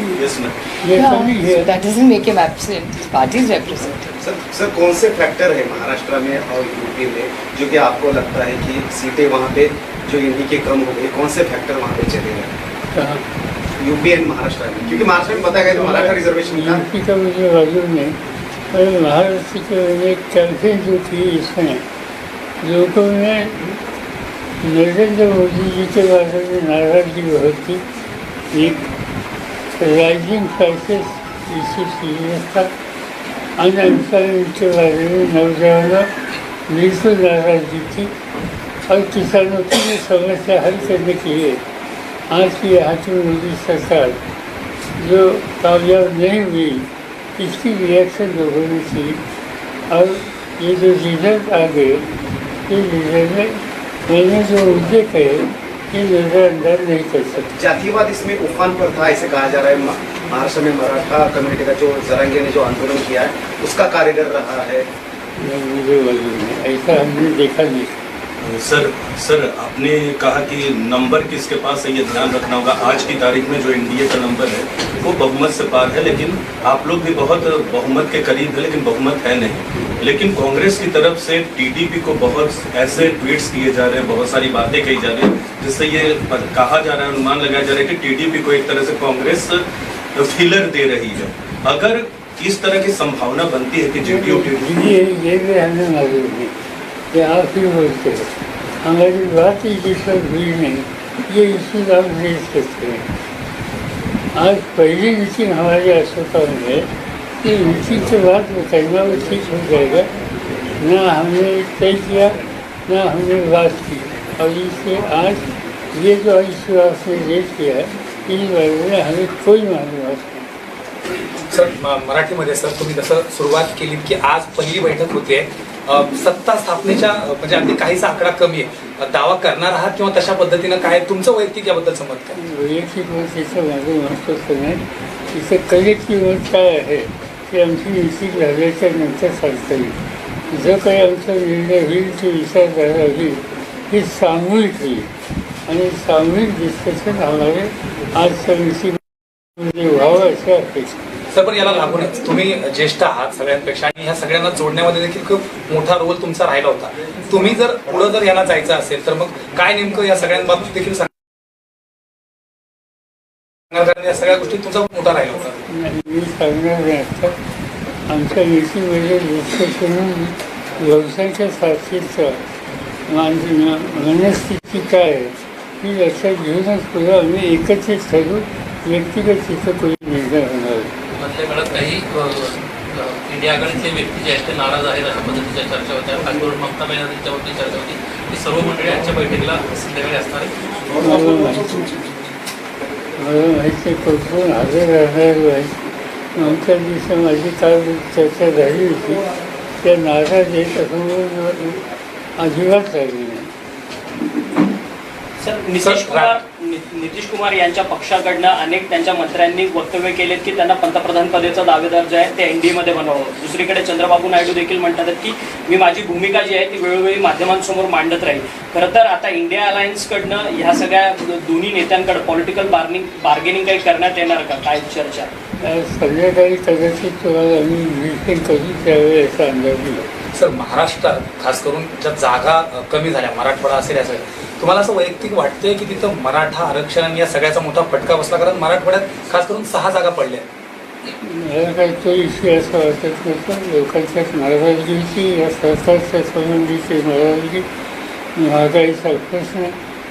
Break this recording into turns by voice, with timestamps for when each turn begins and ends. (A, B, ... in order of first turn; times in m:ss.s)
0:00.2-0:00.5 A
0:00.8-0:01.8 B
0:00.9-0:04.1 C
0:04.2-0:12.5 D
0:12.9-0:13.2 B
0:13.8-0:16.8 D
0:15.6-0:18.2 B
0:18.7-0:21.9 B
0:22.6-0:23.7 B
0:24.6-0:27.8 B
0:28.5-0:28.9 B
0:29.7-0:32.7 B
0:33.6-0:36.1 B
0:36.7-0:38.1 B
0:38.9-0:41.6 B
0:42.3-0:44.2 B
0:45.0-0:49.2 B
0:49.9-0:52.1 B
0:52.7-0:57.5 B
0:57.6-1:04.9 D
1:05.4-1:08.0 B
1:08.4-1:29.6 A
1:30.1-1:34.6 A
1:34.0-1:36.6 B
1:37.1-1:38.3 B
1:38.8-1:43.1 B
1:44.3-1:46.9 B
1:47.4-1:50.1 B
1:50.8-2:00.5 B
2:01.5-2:12.3 E
2:12.4-2:20.0 B
2:20.5-2:25.1 B
2:25.7-2:29.0 B
2:29.6-2:31.1 B
2:31.3-2:41.1 E
2:43.7-2:45.6 E
2:45.7-2:47.4 B
2:48.1-2:52.4 B
2:53.1-3:00.9 B
3:01.1-3:10.5 F
3:11.0-3:11.9 B
3:13.2-3:19.2 B
3:19.8-3:21.8 B
3:22.4-3:23.5 B
3:25.4-3:45.3 G
3:25.8-3:26.3 E
3:45.7-3:50.0 B
3:50.3-4:00.4 E
4:01.2-4:07.6 B
4:08.4-4:09.8 B